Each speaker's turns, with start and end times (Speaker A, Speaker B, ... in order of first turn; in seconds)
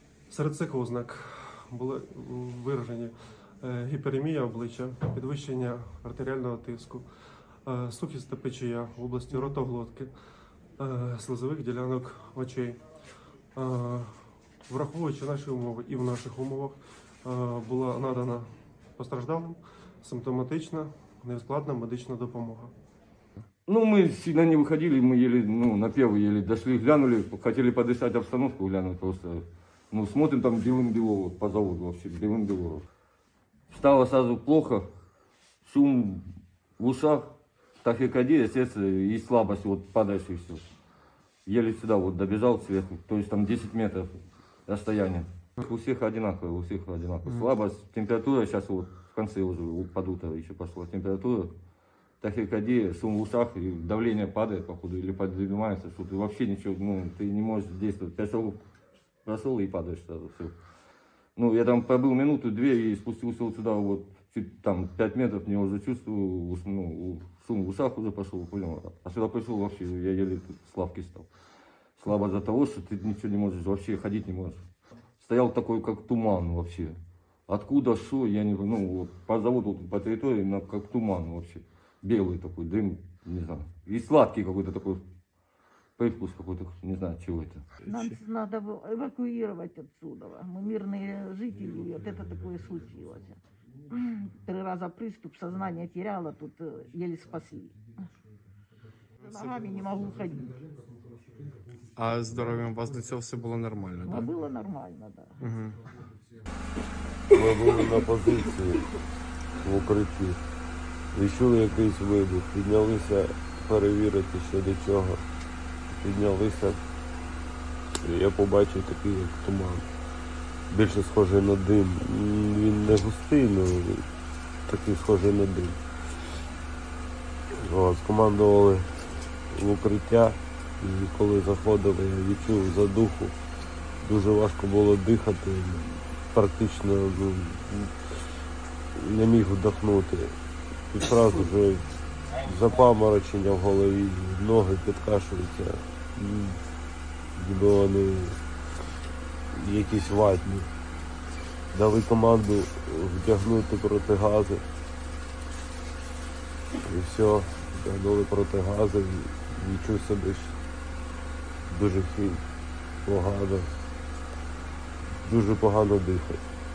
Speaker A: 0.3-7.1, 7.7-10.1, 10.8-12.8, 13.6-22.7
Speaker B: 23.7-32.9, 33.7-34.9, 35.6-36.2, 36.8-37.3, 37.8-40.7, 41.5-51.5, 52.2-58.6, 59.2-60.5, 61.4-71.3, 72.0-74.6, 75.2-77.0, 77.5-85.0, 86.0-87.7
Speaker C: 87.9-97.8, 99.2-100.6, 104.0-105.3
Speaker D: 102.0-104.3, 105.4-105.8
Speaker E: 107.3-108.9, 109.6-110.4, 111.1-115.2, 116.0-116.8, 118.0-119.9, 120.7-124.1, 124.7-125.8, 127.6-128.9, 129.5-133.3, 134.0-137.9, 138.9-140.3, 140.9-146.6, 147.4-148.4, 149.5-150.7, 151.7-154.6, 156.9-160.6, 161.7-162.4, 163.0-163.7, 165.2-166.4